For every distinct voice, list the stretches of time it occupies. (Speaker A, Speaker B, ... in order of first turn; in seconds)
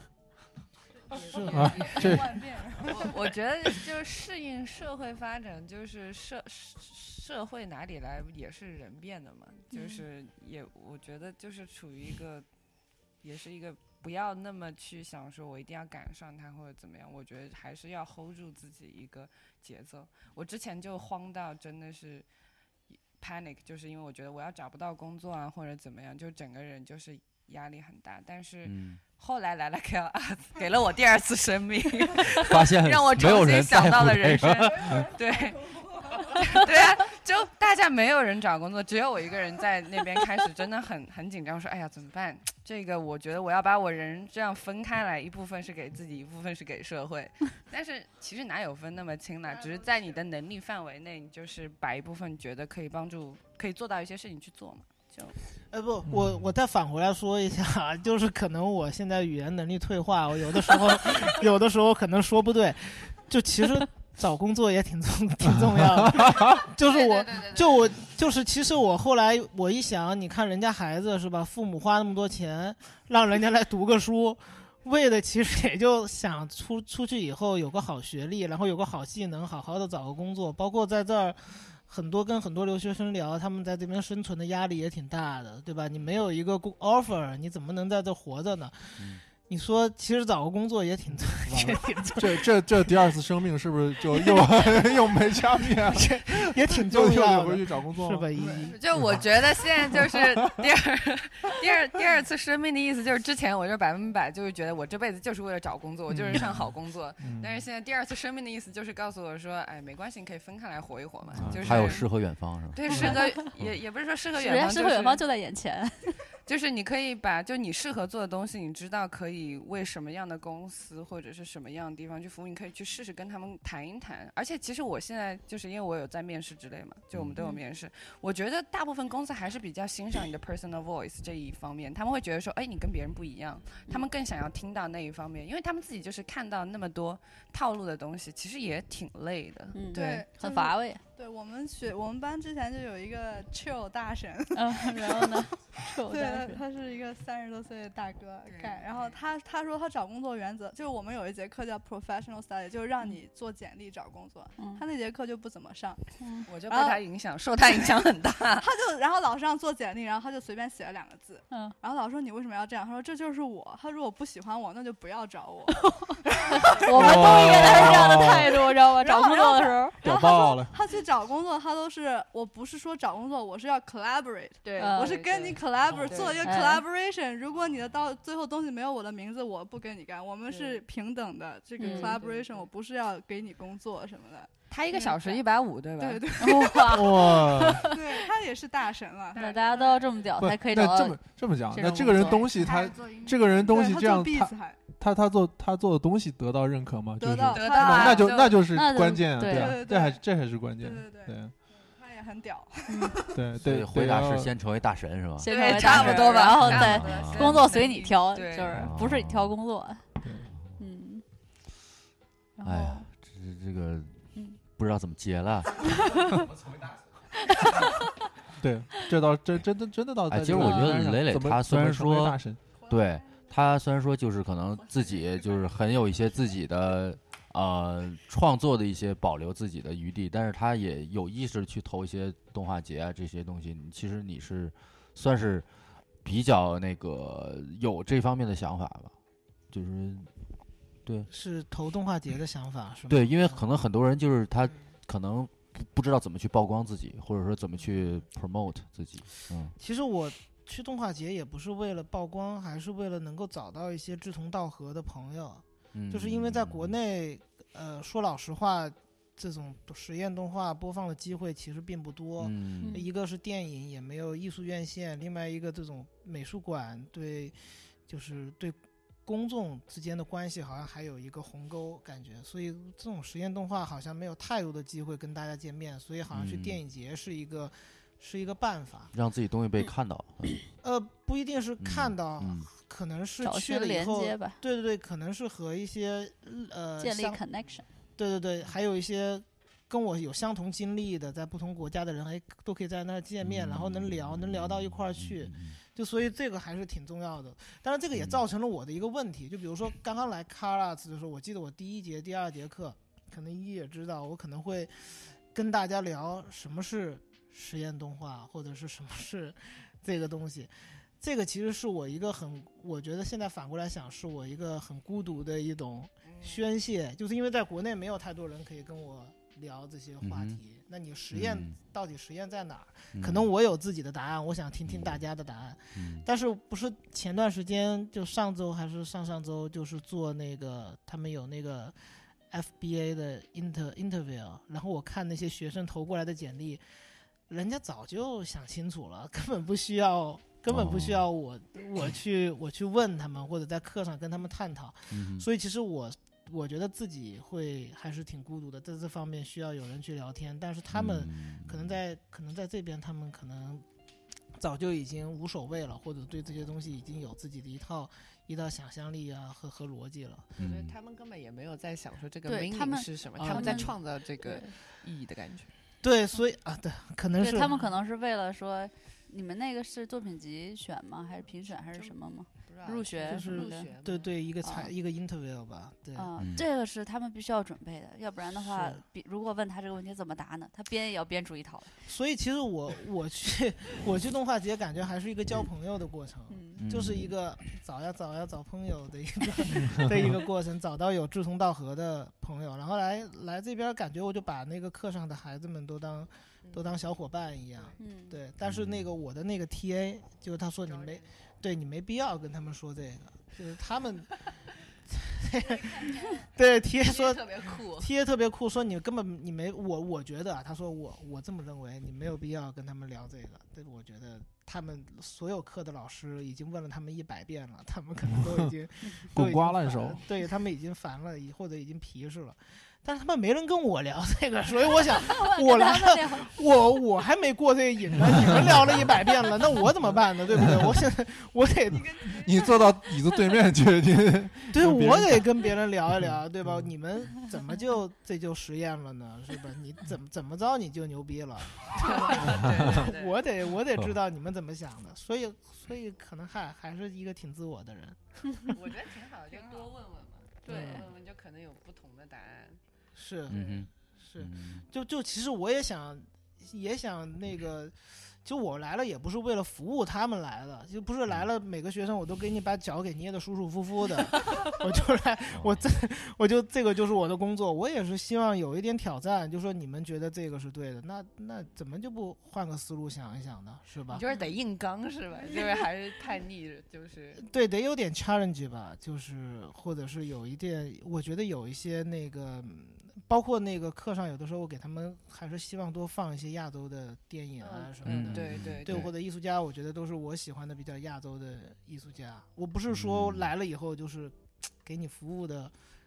Speaker A: 1.1-3.3, 139.9-156.0, 156.6-157.0, 158.6-185.4, 186.0-189.6, 192.6-194.8, 197.2-198.5, 199.5-200.2, 200.8-203.4, 222.8-223.4
Speaker B: 1.3-2.1, 2.9-12.5, 13.2-22.3, 23.2-55.4, 66.9-67.8, 98.6-112.0, 112.7-115.2, 116.5-140.3, 148.4-149.2, 156.5-158.7, 174.6-176.6, 180.5-180.8, 181.8-182.7, 184.7-186.4, 189.3-190.1, 192.6-193.6, 197.5-198.6, 205.4-208.8, 316.3-316.6, 360.6-365.7, 371.8-372.1, 372.7-374.3, 396.6-397.1, 400.8-401.3, 407.1-408.1, 442.0-443.4, 448.7-452.8, 474.1-477.4, 487.6-489.1
Speaker C: 1.3-1.7, 55.7-93.0, 94.1-94.9, 95.6-98.8, 241.3-243.7, 249.8-267.6, 268.1-279.1, 280.8-287.4, 288.2-332.0, 332.5-336.8, 337.5-353.9, 354.6-360.5, 363.4-363.9, 366.0-367.9, 373.2-376.3, 378.7-379.0, 382.0-404.5, 405.1-432.3, 434.7-448.7, 450.7-451.1, 453.2-474.2, 477.4-495.7
Speaker D: 1.5-2.4, 56.1-56.4, 66.0-66.6, 91.5-99.4, 100.0-100.6, 106.1-107.6, 111.3-112.0, 112.9-113.2, 166.9-168.4, 170.0-170.7, 186.9-187.9, 190.4-201.6, 203.3-204.5, 210.2-210.5, 218.6-222.6, 419.3-420.2, 432.3-435.5, 436.1-436.9
Speaker E: 9.7-10.0, 112.9-113.4, 114.4-116.2, 139.7-141.0, 144.5-146.6, 154.6-154.8, 156.2-156.5, 161.5-161.8, 166.0-170.0, 174.8-175.2, 176.4-176.8, 181.8-182.2, 186.4-187.9, 189.4-191.2, 191.7-192.5, 198.7-199.8, 202.9-203.2, 205.4-210.0, 210.8-211.2, 212.6-213.1, 217.6-218.0, 220.6-220.9, 262.8-263.1, 283.4-284.6, 287.0-287.9, 362.5-364.7, 367.4-373.9, 374.6-374.9, 376.2-381.9, 386.5-386.8, 398.0-398.4, 425.1-426.5, 450.6-451.1
Speaker F: 28.6-29.0, 32.4-35.1, 89.0-89.2, 111.4-112.9, 127.1-127.4, 203.6-207.6, 208.8-209.6, 212.6-214.2, 214.8-216.0, 220.3-235.7, 236.2-239.1, 239.7-240.3, 241.1-241.3, 243.1-249.7, 255.9-257.0, 262.4-263.0, 276.3-276.8, 279.1-280.6, 281.8-282.7, 293.4-295.8, 298.1-298.4, 320.2-320.6, 321.3-321.8, 323.1-323.5, 324.9-325.2, 325.9-326.3, 340.7-341.3, 345.1-345.5, 350.9-352.0, 360.6-361.0, 376.4-376.7, 386.8-387.4, 398.6-399.1, 453.5-454.9, 465.5-466.0, 488.0-489.1, 492.9-493.5